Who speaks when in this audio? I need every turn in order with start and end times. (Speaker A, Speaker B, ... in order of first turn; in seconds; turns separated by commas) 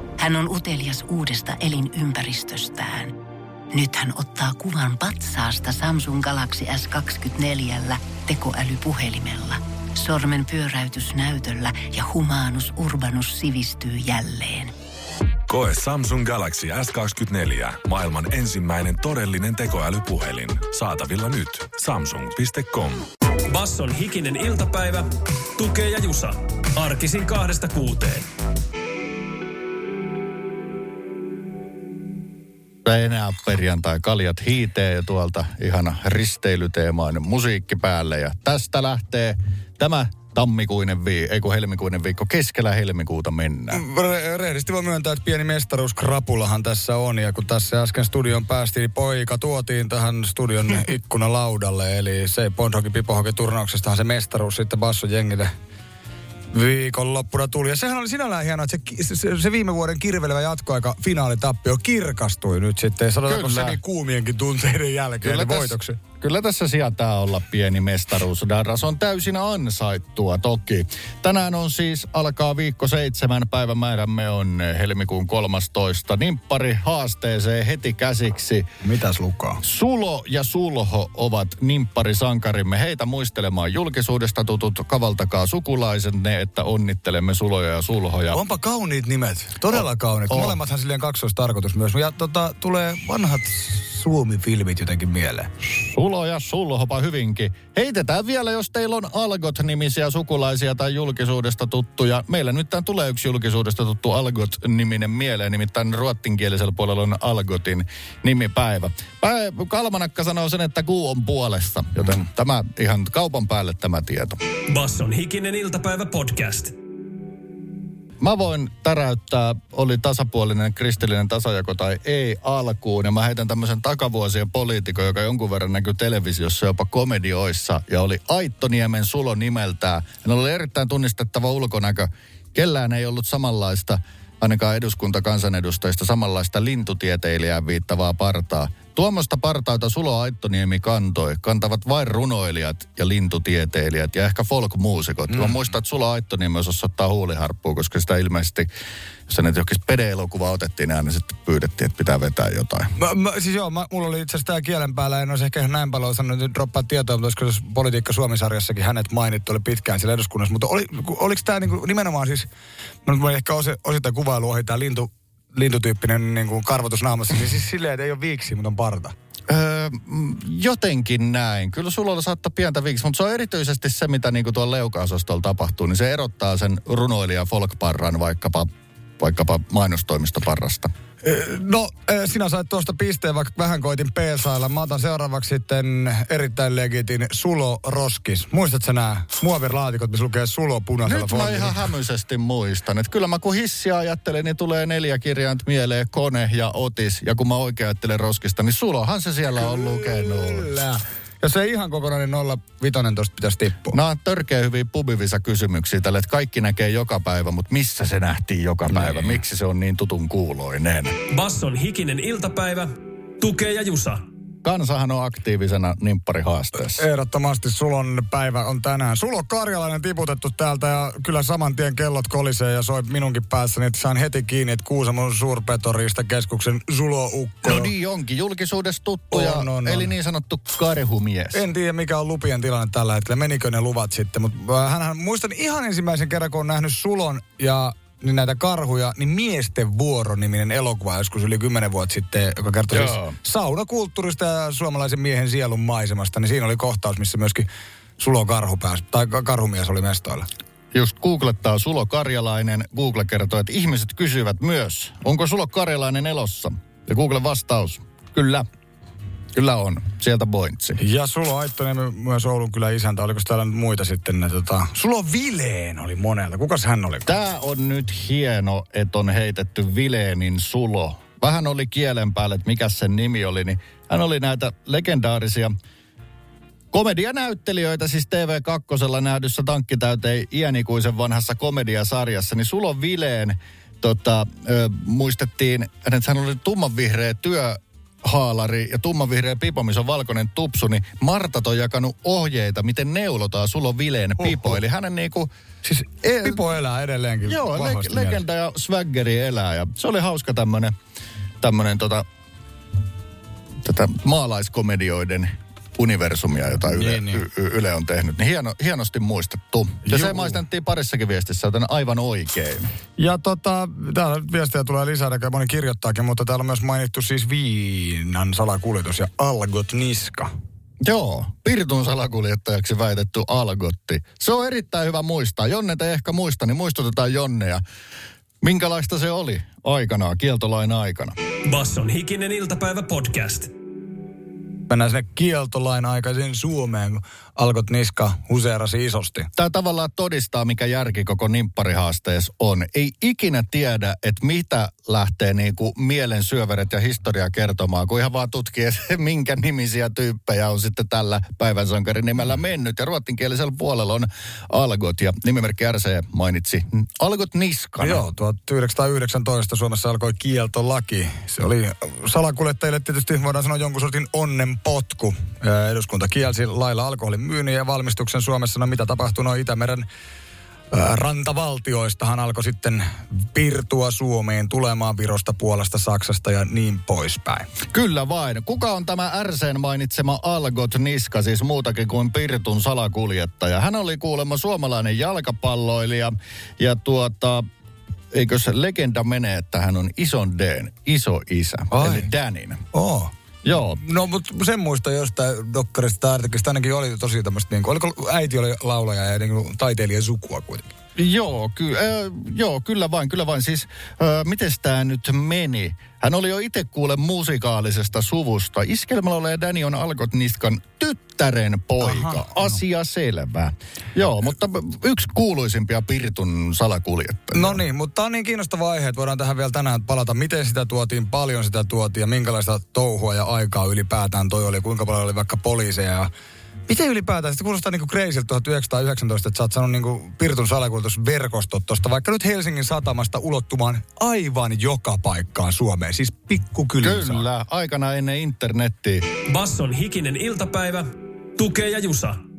Speaker A: 0.2-3.1, Speaker A: 3.7-14.7, Speaker B: 15.5-23.1, Speaker C: 23.5-28.2, Speaker D: 32.8-43.8, Speaker E: 43.7-55.5, Speaker E: 56.5-66.0, Speaker D: 63.3-63.8, Speaker D: 65.2-78.7, Speaker E: 78.8-79.6, Speaker D: 79.6-88.4, Speaker E: 88.3-95.5, Speaker D: 89.7-90.6, Speaker D: 95.7-114.4, Speaker C: 114.7-116.7, Speaker D: 118.2-148.7, Speaker E: 145.3-145.6, Speaker D: 149.3-152.9, Speaker E: 153.0-162.5, Speaker E: 163.1-169.1, Speaker D: 169.5-180.9, Speaker E: 181.2-191.8, Speaker D: 191.0-200.7, Speaker E: 199.7-204.0, Speaker D: 203.9-211.2, Speaker E: 208.9-209.4, Speaker C: 211.3-214.2, Speaker D: 214.6-217.0, Speaker E: 216.9-227.9, Speaker D: 227.6-231.6, Speaker E: 229.3-230.1, Speaker E: 231.5-247.7, Speaker D: 242.9-243.3, Speaker E: 248.2-250.5, Speaker D: 250.9-258.7, Speaker D: 259.5-261.0, Speaker E: 261.0-267.3, Speaker D: 267.2-275.7, Speaker D: 276.9-295.5, Speaker E: 294.4-294.7, Speaker E: 295.8-298.4, Speaker D: 297.4-300.9, Speaker D: 301.6-302.2, Speaker D: 303.8-312.9, Speaker E: 306.9-307.4, Speaker E: 310.0-310.6, Speaker E: 313.2-320.5, Speaker D: 321.0-327.8, Speaker D: 328.6-331.4, Speaker C: 331.7-333.7, Speaker E: 334.9-339.5, Speaker D: 339.6-358.2, Speaker E: 358.0-370.1, Speaker E: 370.9-377.7, Speaker D: 377.9-387.6, Speaker D: 388.3-392.8, Speaker E: 391.9-392.3, Speaker E: 392.9-393.3, Speaker D: 393.6-394.0, Speaker E: 394.0-400.9, Speaker D: 401.1-417.8, Speaker E: 412.0-412.8, Speaker E: 417.5-426.3, Speaker E: 426.9-437.4, Speaker D: 437.0-439.2, Speaker C: 439.5-442.4